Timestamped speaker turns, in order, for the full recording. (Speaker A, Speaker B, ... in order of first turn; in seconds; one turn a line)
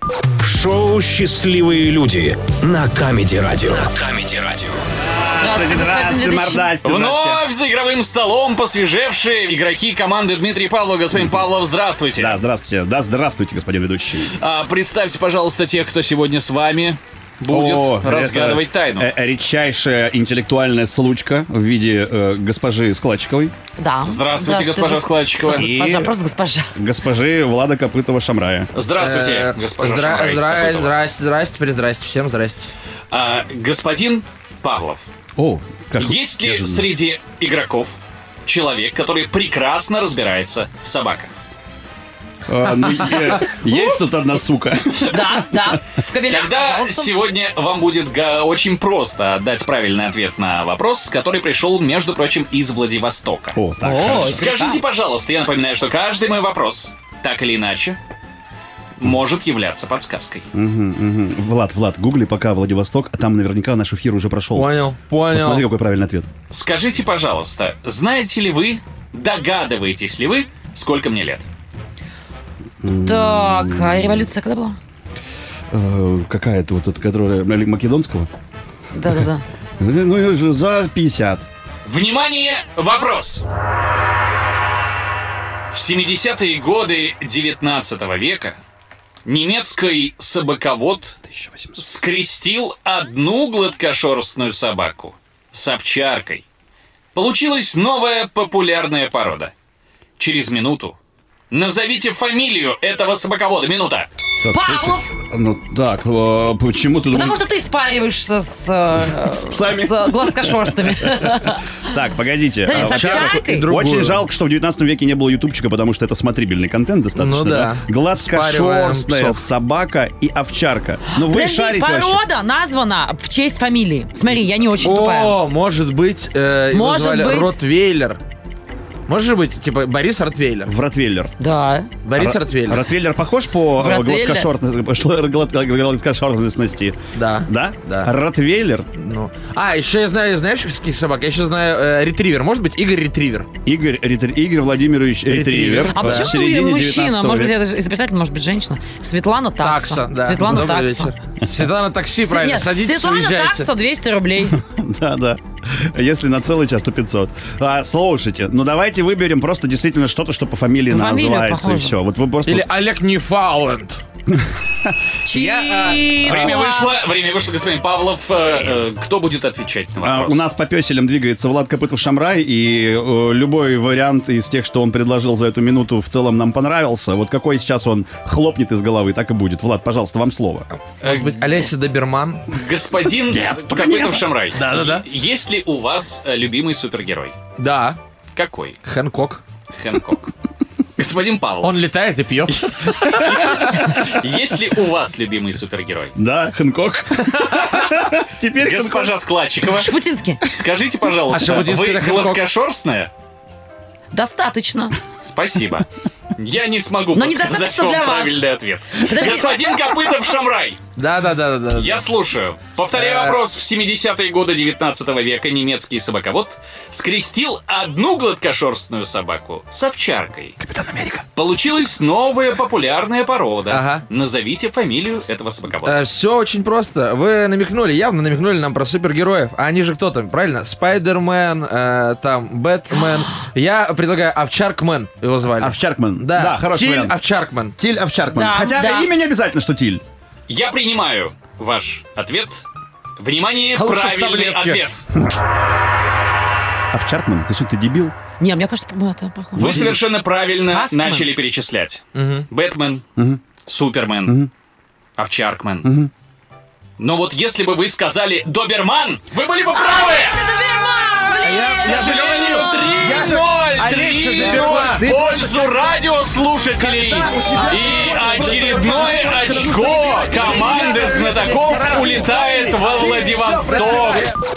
Speaker A: 0.4-4.8
Speaker B: 5.0-7.4
Speaker C: 5.4-6.7
Speaker D: 6.8-12.4
Speaker B: 11.1-11.4
Speaker B: 12.2-14.3
Speaker D: 14.2-19.1
Speaker B: 17.5-23.5
Speaker C: 23.8-26.7
Speaker D: 24.0-25.7
Speaker B: 25.5-26.2
Speaker B: 26.7-28.7
Speaker D: 28.7-30.9
Speaker E: 29.0-32.7
Speaker D: 33.1-35.0
Speaker B: 35.4-36.9
Speaker D: 36.0-41.3
Speaker B: 42.5-45.8
Speaker C: 45.0-47.2
Speaker D: 46.2-58.0
Speaker B: 53.5-54.5
Speaker C: 53.8-54.8
Speaker D: 59.0-60.5
Speaker B: 60.5-64.7
Speaker E: 64.5-65.6
Speaker B: 65.3-66.3
Speaker D: 66.5-71.5
Speaker B: 72.8-74.3
Speaker C: 73.0-74.8
Speaker B: 75.7-78.3
Speaker C: 78.9-79.4
Speaker B: 79.8-81.5
Speaker D: 81.8-83.4
Speaker D: 85.7-88.6
Speaker D: 89.2-91.2
Speaker B: 91.3-91.8
Speaker D: 91.8-96.4
Speaker D: 97.1-99.5
Speaker D: 100.2-101.0
Speaker D: 101.5-104.1
Speaker B: 104.4-107.4
Speaker C: 104.5-105.1
Speaker C: 107.1-111.8
Speaker B: 109.0-122.2
Speaker C: 112.6-113.7
Speaker E: 112.7-114.2
Speaker E: 117.1-119.4
Speaker C: 121.1-125.4
Speaker E: 124.8-128.2
Speaker C: 126.7-127.6
Speaker E: 129.1-130.7
Speaker B: 130.7-131.3
Speaker C: 131.4-131.9
Speaker E: 132.0-132.8
Speaker B: 132.2-138.9
Speaker C: 133.8-134.5
Speaker E: 137.1-138.1
Speaker E: 138.9-143.5
Speaker B: 143.6-147.5
Speaker E: 145.3-146.4
Speaker C: 145.9-151.1
Speaker E: 149.6-153.7
Speaker C: 152.2-154.6
Speaker B: 154.5-162.7
Speaker C: 160.9-161.9
Speaker E: 162.4-164.0
Speaker B: 164.4-165.0
Speaker C: 165.2-166.9
Speaker D: 165.3-170.4
Speaker B: 166.2-166.5
Speaker B: 170.0-180.7
Speaker E: 181.0-182.4
Speaker D: 181.0-181.5
Speaker D: 182.5-187.3
Speaker B: 183.0-184.3
Speaker E: 184.5-185.0
Speaker E: 187.6-188.0
Speaker D: 188.3-188.8
Speaker E: 188.8-189.4
Speaker D: 189.7-190.3
Speaker D: 190.9-191.8
Speaker E: 191.6-194.0
Speaker D: 192.6-196.2
Speaker B: 196.2-199.2
Speaker D: 198.6-203.1
Speaker C: 199.8-200.4
Speaker E: 201.3-202.4
Speaker C: 204.1-205.0
Speaker D: 205.2-210.8
Speaker C: 207.1-209.7
Speaker E: 211.0-212.0
Speaker D: 211.7-220.6
Speaker E: 212.9-213.4
Speaker B: 220.6-221.2
Speaker D: 221.3-226.0
Speaker E: 223.7-224.0
Speaker E: 225.8-237.8
Speaker B: 235.6-237.2
Speaker B: 237.8-240.0
Speaker C: 238.3-239.1
Speaker D: 240.5-242.7
Speaker D: 243.2-245.0
Speaker E: 243.7-244.8
Speaker B: 246.9-248.1
Speaker C: 248.4-249.8
Speaker D: 249.5-253.0
Speaker E: 249.6-250.0
Speaker C: 250.6-251.3
Speaker E: 252.1-252.5
Speaker B: 253.2-253.4
Speaker D: 253.6-254.4
Speaker D: 255.2-255.9
Speaker B: 255.8-256.1
Speaker D: 257.0-260.4
Speaker C: 259.7-262.9
Speaker E: 261.4-265.4
Speaker D: 261.7-274.3
Speaker E: 266.8-274.4
Speaker B: 268.4-268.9
Speaker C: 268.9-271.4